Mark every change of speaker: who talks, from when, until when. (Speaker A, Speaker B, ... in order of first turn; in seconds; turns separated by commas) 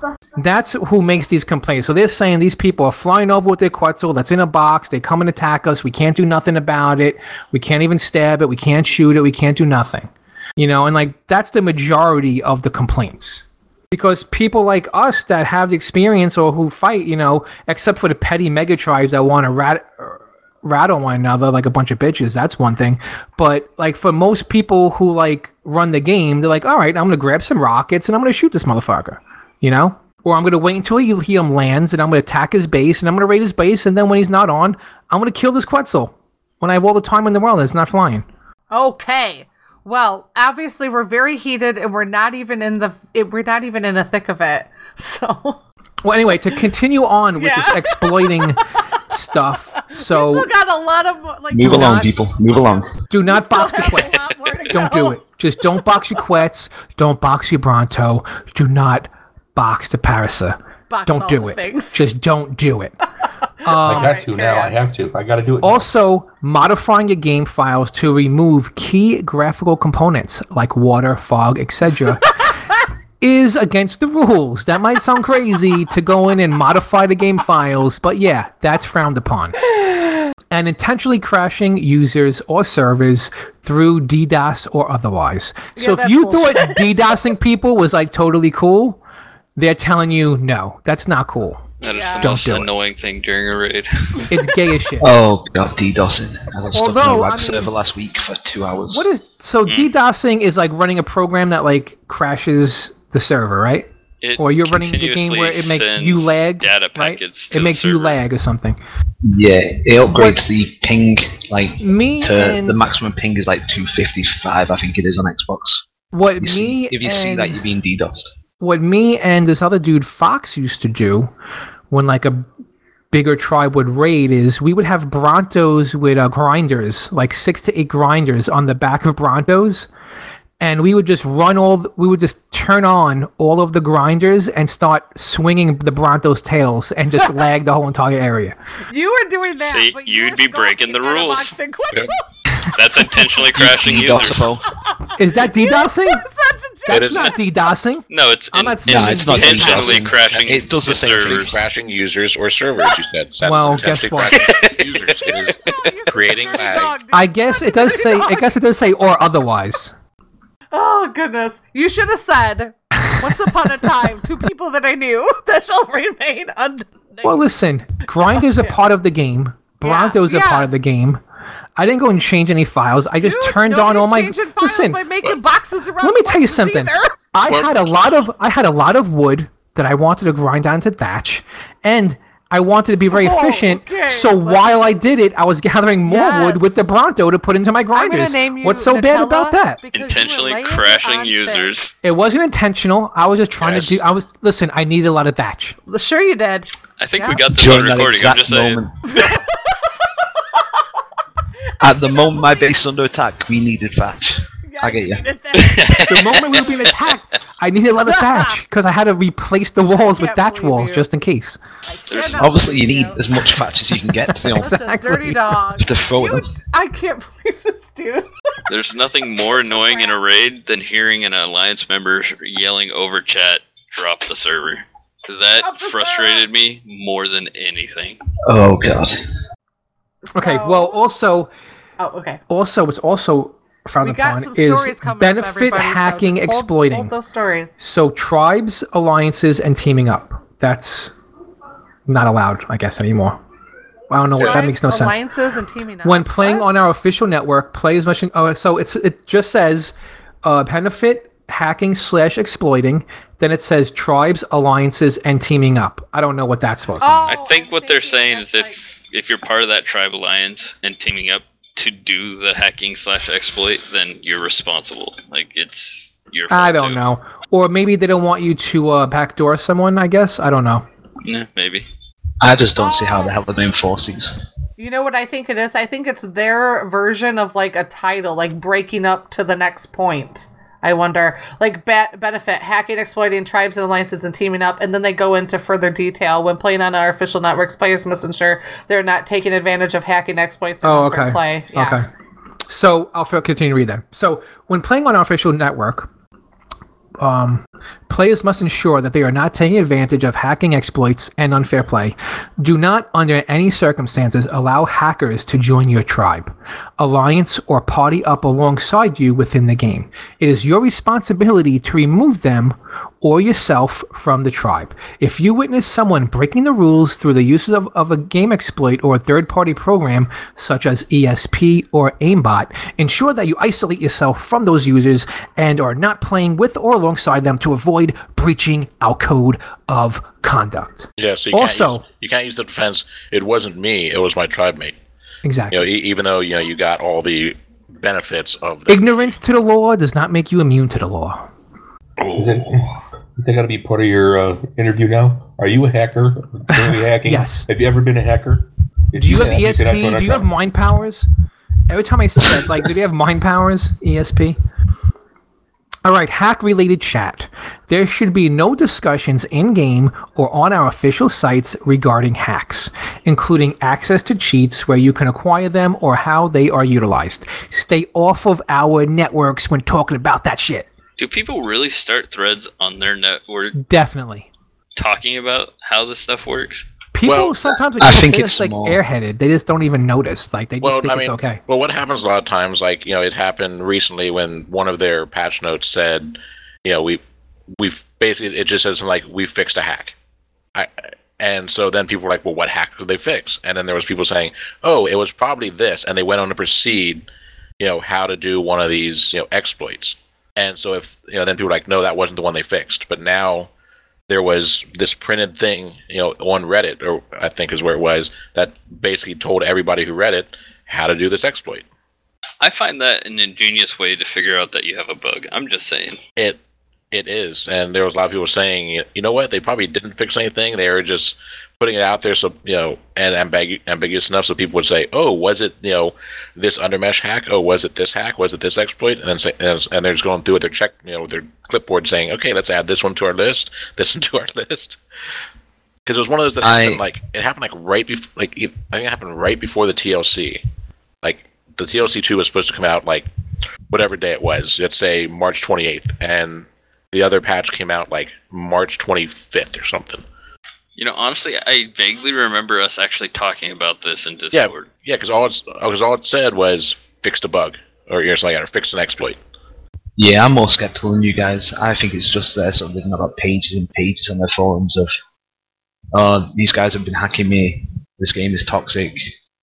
Speaker A: 0.3-38.2, Speaker B: 38.7-45.6, Speaker A: 46.0-50.5, Speaker B: 47.4-48.5, Speaker B: 49.8-52.1, Speaker C: 51.5-52.9, Speaker A: 51.6-52.1, Speaker A: 53.1-62.9, Speaker B: 53.3-55.2, Speaker B: 60.9-62.1, Speaker B: 63.6-64.8, Speaker A: 63.6-64.1, Speaker D: 63.7-65.9, Speaker A: 65.6-72.3, Speaker A: 73.2-79.6, Speaker A: 80.5-89.0, Speaker B: 85.8-87.2, Speaker A: 89.5-92.7, Speaker E: 91.8-94.3, Speaker B: 91.9-92.3, Speaker A: 94.3-95.1, Speaker C: 95.0-99.0, Speaker A: 96.7-97.7, Speaker A: 98.9-108.8, Speaker E: 99.7-99.9, Speaker E: 104.2-108.2, Speaker C: 109.2-115.8, Speaker A: 110.1-110.4, Speaker A: 111.8-112.9, Speaker A: 116.1-117.6, Speaker C: 116.4-118.3, Speaker A: 118.6-121.3, Speaker A: 121.9-122.5, Speaker A: 123.1-129.9, Speaker A: 130.6-138.6, Speaker B: 138.9-142.2, Speaker E: 139.6-141.5, Speaker E: 142.7-144.5, Speaker C: 143.5-144.6, Speaker B: 145.0-147.3, Speaker A: 145.2-146.2, Speaker A: 146.9-150.1, Speaker F: 146.9-147.3, Speaker E: 148.1-151.5, Speaker C: 148.9-151.6, Speaker F: 149.4-157.0, Speaker A: 153.4-154.4, Speaker E: 154.3-155.6, Speaker B: 155.3-158.5, Speaker A: 157.1-159.9, Speaker B: 160.7-167.4, Speaker A: 163.0-163.8, Speaker A: 167.2-171.2, Speaker B: 168.3-168.8, Speaker B: 169.8-170.7, Speaker A: 171.8-175.1, Speaker B: 173.2-177.2, Speaker A: 176.0-189.8, Speaker F: 177.4-178.1, Speaker B: 183.1-184.9, Speaker B: 186.0-186.9, Speaker B: 187.9-191.7, Speaker E: 189.9-191.9, Speaker A: 192.0-195.8, Speaker F: 193.6-194.0, Speaker B: 195.9-197.4, Speaker E: 197.0-198.8, Speaker C: 197.5-198.9, Speaker B: 199.1-200.2, Speaker C: 201.8-205.2, Speaker B: 202.1-202.7, Speaker B: 204.6-206.4, Speaker E: 205.5-206.9, Speaker A: 206.1-211.6, Speaker B: 208.1-208.6, Speaker B: 209.9-211.0, Speaker B: 211.9-213.2, Speaker E: 212.1-212.4, Speaker C: 212.2-214.7, Speaker A: 214.3-215.6, Speaker B: 214.4-218.3, Speaker C: 215.8-216.5, Speaker E: 218.7-228.2, Speaker B: 219.3-220.2, Speaker B: 225.6-226.5, Speaker C: 228.5-229.2, Speaker B: 230.2-231.0, Speaker A: 230.3-231.5, Speaker B: 232.0-232.4, Speaker A: 232.5-237.1, Speaker B: 234.0-237.8, Speaker A: 237.8-241.1, Speaker A: 242.1-243.4, Speaker A: 244.1-245.2, Speaker B: 244.4-246.7, Speaker A: 246.0-257.4, Speaker B: 257.0-258.8, Speaker E: 257.3-267.0, Speaker A: 266.5-270.8, Speaker E: 271.2-271.9, Speaker C: 272.4-274.3, Speaker B: 272.8-273.4, Speaker B: 274.8-292.0, Speaker A: 290.8-292.1, Speaker A: 292.7-296.1, Speaker A: 297.2-332.0, Speaker F: 331.2-334.9, Speaker A: 335.4-335.9, Speaker F: 335.7-339.3, Speaker A: 338.9-341.5, Speaker F: 342.2-342.7, Speaker D: 342.4-350.5, Speaker A: 346.7-347.7, Speaker A: 349.1-351.3, Speaker A: 351.9-354.6, Speaker A: 356.0-370.9, Speaker E: 371.2-373.8, Speaker A: 373.8-374.5, Speaker E: 374.9-376.9, Speaker A: 377.1-381.6, Speaker F: 377.2-377.6, Speaker C: 378.0-379.0, Speaker F: 380.8-387.2, Speaker F: 387.7-390.1, Speaker F: 390.7-397.2, Speaker F: 397.8-403.7, Speaker F: 404.3-411.8, Speaker E: 412.6-416.2, Speaker F: 417.1-435.0, Speaker F: 436.0-440.6, Speaker C: 436.6-437.0, Speaker F: 441.2-443.3, Speaker F: 443.9-450.2, Speaker E: 451.0-454.9, Speaker F: 454.5-459.4, Speaker C: 460.2-465.1, Speaker C: 466.1-469.3